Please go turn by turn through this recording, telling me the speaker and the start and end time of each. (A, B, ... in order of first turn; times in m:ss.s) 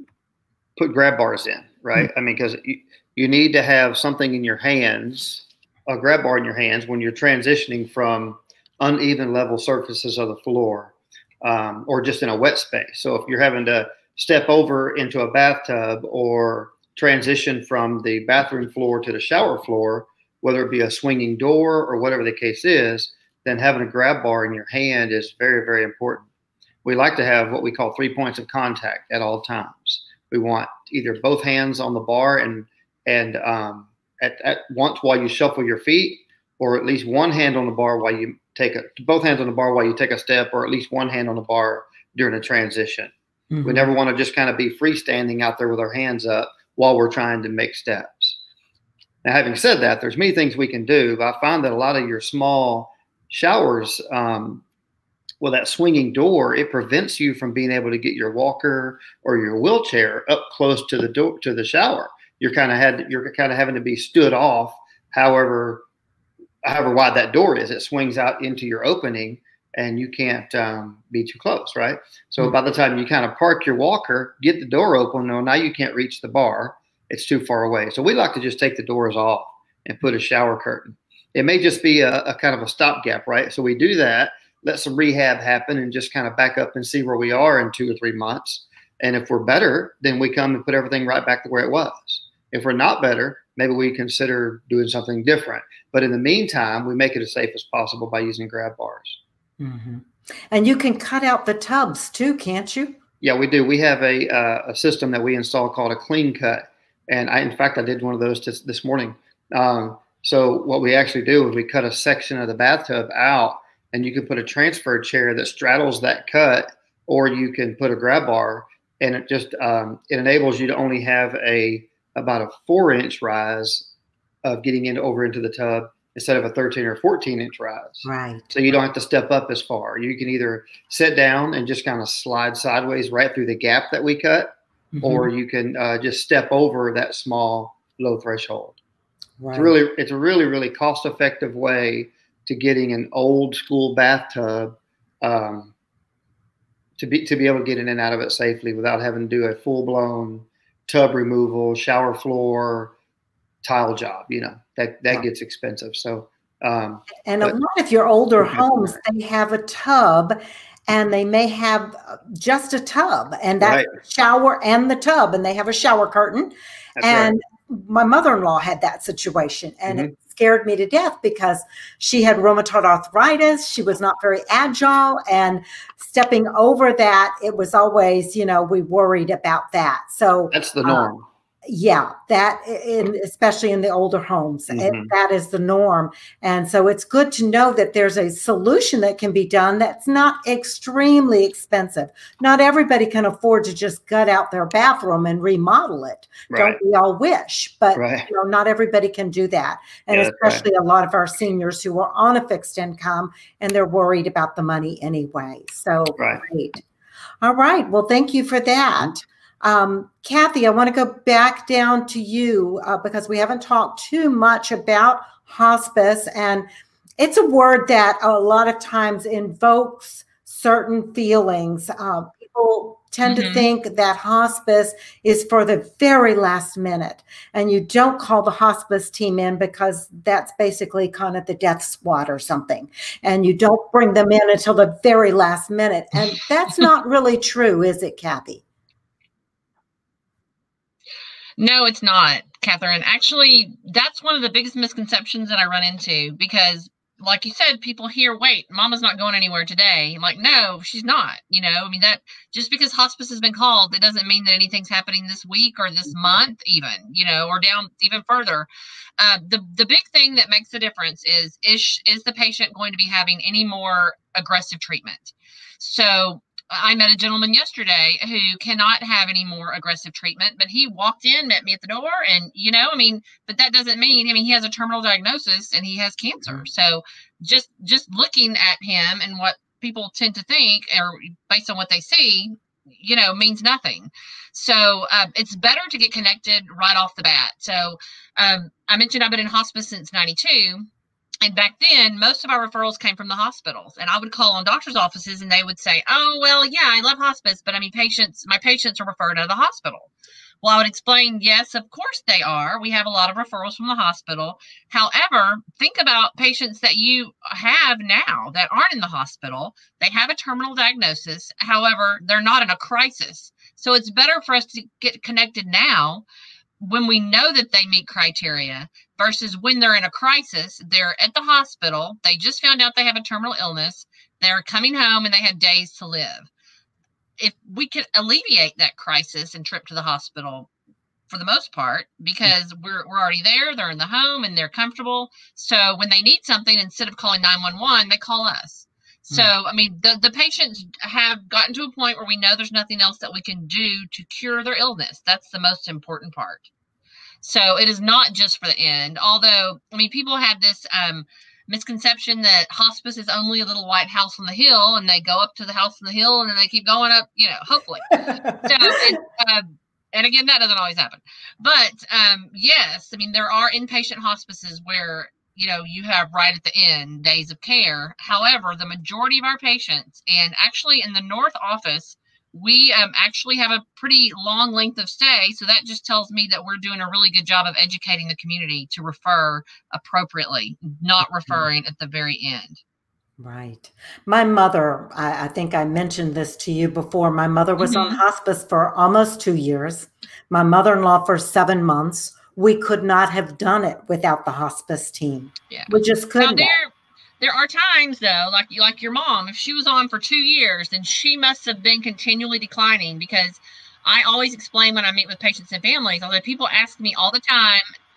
0:00.8-0:26.2 A
0:26.8-0:43.1 A
0:43.5-0:43.9 B
0:43.6-0:48.4 A
0:49.2-0:54.6 A
0:55.4-1:05.8 A
1:06.6-1:39.2 A
1:39.6-1:43.0 B
1:43.2-2:03.9 A
2:04.4-2:18.8 A
2:08.0-2:08.4 B
2:14.9-2:15.3 B
2:19.4-2:19.7 B
2:19.5-2:25.7 A
2:27.0-2:32.9 A
2:33.6-2:37.5 A
2:37.2-3:01.1 B
2:38.4-2:39.0 A
2:43.6-2:43.9 A
2:47.0-2:47.3 A
3:00.5-3:01.2 A
3:01.6-3:26.8 B
3:04.7-3:05.1 A
3:16.5-3:16.8 A
3:18.0-3:18.3 A
3:20.1-3:20.6 A
3:27.4-3:36.7 B
3:37.2-3:58.6 B
3:43.2-3:43.7 C
4:01.6-4:18.7 C
4:19.2-4:50.9 C
4:51.4-5:00.1 C
5:00.6-5:16.2 C
5:16.8-5:26.5 C
5:27.4-5:30.7 C
5:31.3-5:46.7 C
5:47.4-6:22.8 C
6:23.4-6:36.7 B
6:27.8-6:28.2 C
6:35.7-6:47.8 C